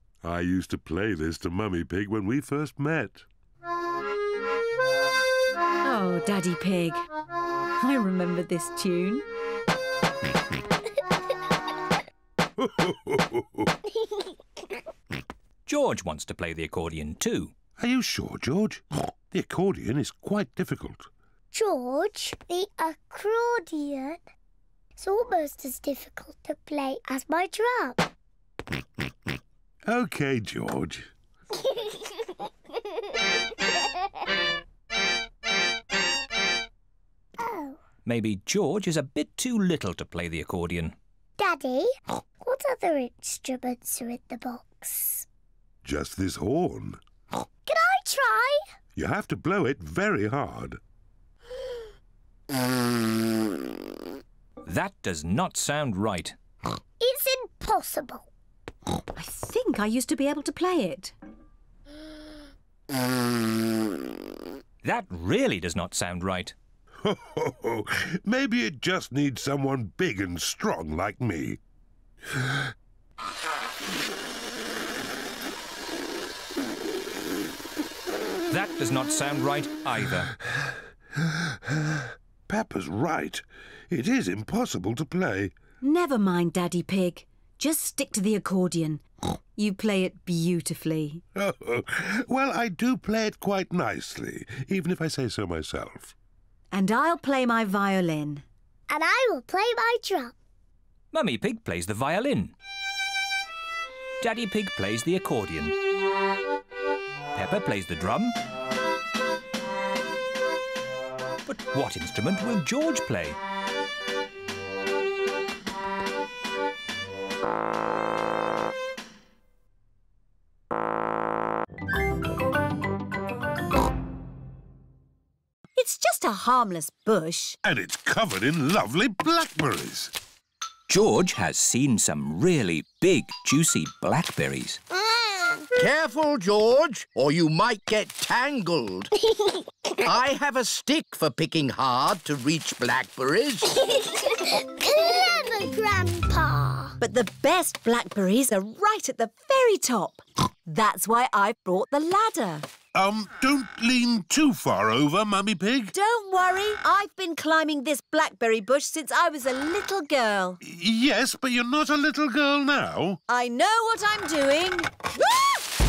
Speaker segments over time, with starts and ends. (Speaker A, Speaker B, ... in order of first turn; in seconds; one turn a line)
Speaker A: 0.2-3.3
Speaker B: 5.8-7.0
Speaker B: 7.8-9.3
Speaker A: 12.6-13.7
Speaker C: 14.0-14.3
Speaker D: 15.7-17.5
Speaker A: 17.8-21.1
Speaker C: 21.5-24.2
Speaker C: 25.0-28.1
Speaker A: 29.9-31.1
Speaker C: 31.6-32.0
Speaker C: 37.4-37.8
Speaker D: 38.0-41.0
Speaker C: 41.4-45.2
Speaker A: 45.8-47.0
Speaker C: 47.7-48.6
Speaker A: 49.0-50.8
Speaker D: 54.6-56.4
Speaker C: 57.0-58.3
Speaker B: 59.1-61.1
Speaker D: 64.8-66.5
Speaker A: 67.0-71.6
Speaker A: 72.3-72.7
Speaker D: 78.5-80.3
Speaker A: 80.6-85.5
Speaker B: 85.8-89.0
Speaker B: 89.6-91.2
Speaker A: 91.3-96.2
Speaker B: 96.7-98.5
Speaker C: 98.9-100.4
Speaker D: 101.1-102.5
Speaker D: 104.2-105.8
Speaker D: 107.3-108.4
Speaker D: 111.5-113.4
Speaker B: 125.8-127.6
Speaker A: 127.6-130.1
Speaker D: 130.9-134.8
Speaker C: 134.9-135.7
Speaker E: 135.8-139.1
Speaker C: 139.3-139.7
Speaker E: 140.0-143.8
Speaker C: 144.2-147.0
Speaker B: 147.0-152.7
Speaker A: 152.9-155.9
Speaker B: 155.9-160.6
Speaker A: 160.6-163.2
Speaker B: 163.3-164.9